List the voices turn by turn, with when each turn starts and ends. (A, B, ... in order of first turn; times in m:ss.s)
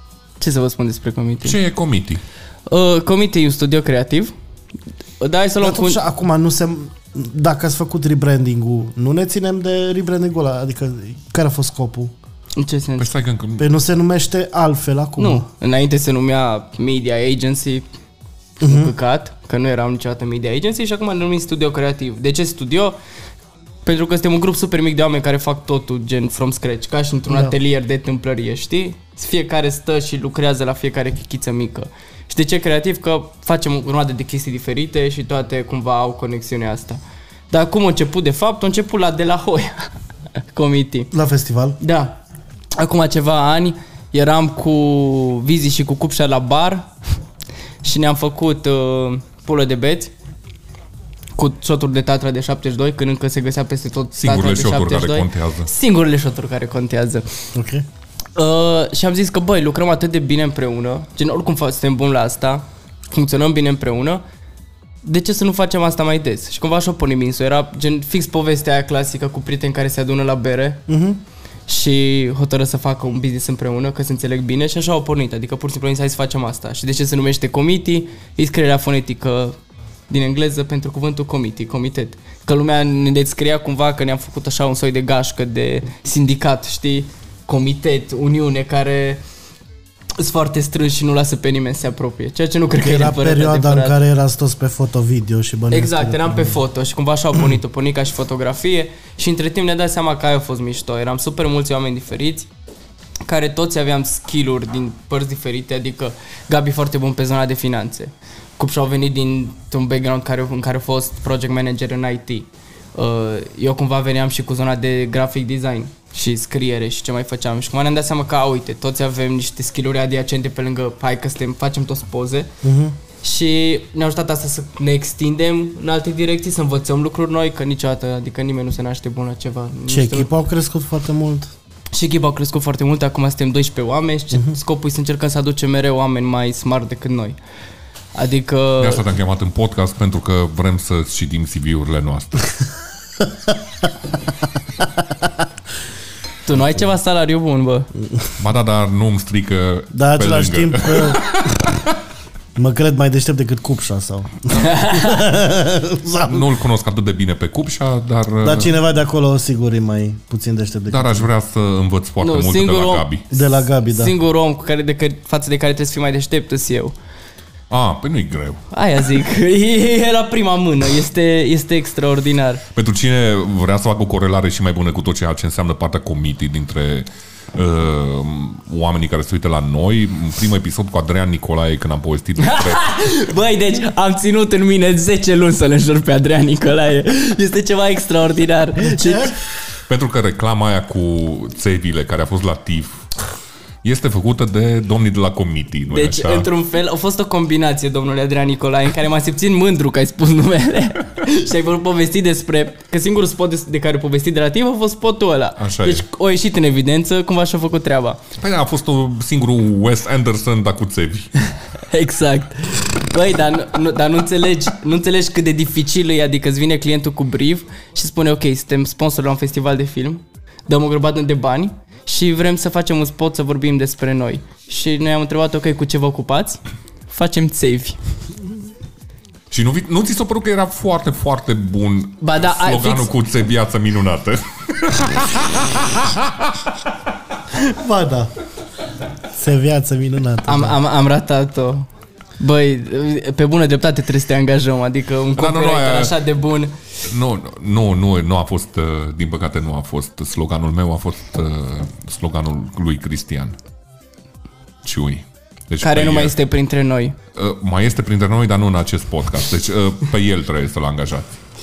0:00.4-0:01.6 A
0:01.4-0:02.2 B
0:02.7-0:04.3 A
0:05.2-0:06.0 A
0:05.6-0:12.1 C
0:12.6-0:13.1 A
0:13.0-0:13.7 B
0:13.6-0:15.4 C
0:15.2-0:17.8 A
0:18.6-0:23.0 A
0:18.6-0:18.9 C
0:23.8-0:39.9 A
0:27.3-0:27.5 C
0:40.5-0:41.1 A
0:41.1-0:41.8 C
0:41.8-0:42.2 A
0:42.8-0:46.9 A
0:47.8-0:50.1 A
0:51.4-0:57.2 A
0:54.2-0:55.7 B
0:57.5-0:57.8 C
0:58.4-1:04.2 A
1:05.0-1:10.8 A
1:10.9-1:11.2 C
1:11.7-1:19.6 A
1:20.1-1:29.2 A
1:30.2-1:34.0 A
1:32.8-1:36.6 C
1:35.7-1:42.5 A
1:43.2-2:02.5 A
2:02.6-2:03.0 C
2:03.2-2:10.3 A
2:09.9-2:11.5 C
2:11.9-2:17.4 A
2:18.1-2:19.0 A
2:18.8-2:22.5 B
2:26.4-2:27.9 A
2:28.4-2:31.9 B
2:29.9-2:31.6 C
2:32.6-2:36.6 C
2:34.5-2:35.3 A
2:36.3-2:38.8 B
2:38.4-2:41.3 C
2:40.9-2:43.2 B
2:42.2-2:43.1 A
2:43.3-2:44.1 C
2:43.9-2:46.9 A
2:47.7-2:48.6 B
2:48.7-2:52.6 A
2:52.7-3:03.0 B
3:02.4-3:09.3 A
3:08.8-3:09.3 C
3:09.9-3:13.0 B
3:13.8-3:16.5 B
3:15.9-3:28.2 A
3:25.6-3:26.0 B
3:28.4-3:31.3 B
3:31.9-3:48.0 A
3:49.5-3:56.6 B
3:52.2-3:53.1 A
3:57.5-3:58.3 C
3:59.3-4:00.8 C
4:00.4-4:01.9 A
4:02.4-4:06.7 A
4:05.4-4:06.2 B
4:07.0-4:13.6 B
4:14.8-4:16.4 B
4:15.8-4:17.2 A
4:17.3-4:21.4 B